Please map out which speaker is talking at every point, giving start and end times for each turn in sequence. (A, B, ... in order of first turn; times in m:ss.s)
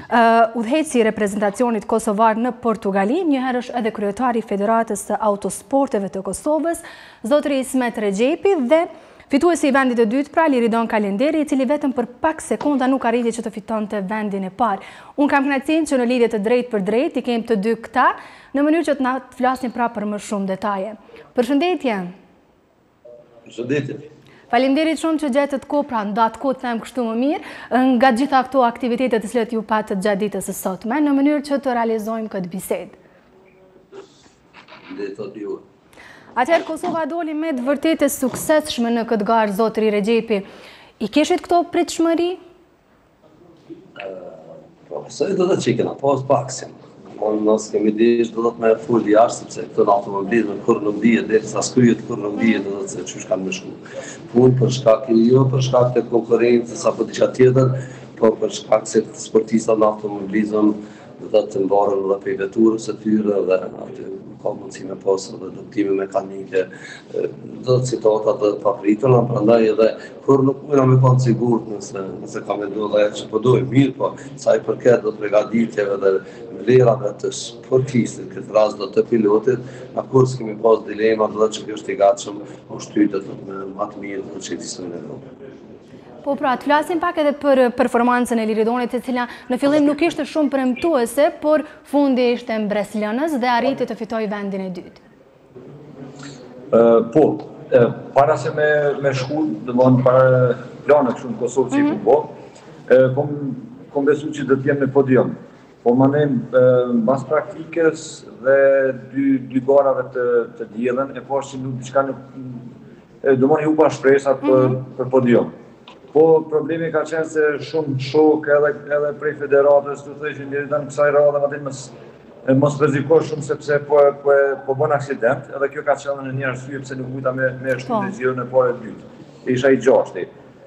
0:00.1-0:22.1 A
0:23.5-0:24.1 B
0:24.5-0:33.0 A
0:34.9-0:35.6 B
0:36.4-0:40.4 A
0:41.0-0:42.4 A
0:44.0-0:53.8 B
0:54.3-1:25.2 B
1:26.2-1:35.0 A
1:36.7-1:42.3 C
1:42.9-1:52.6 C
1:53.2-1:55.5 C
1:56.1-2:01.9 C
2:02.4-2:10.3 C
2:07.9-2:08.2 A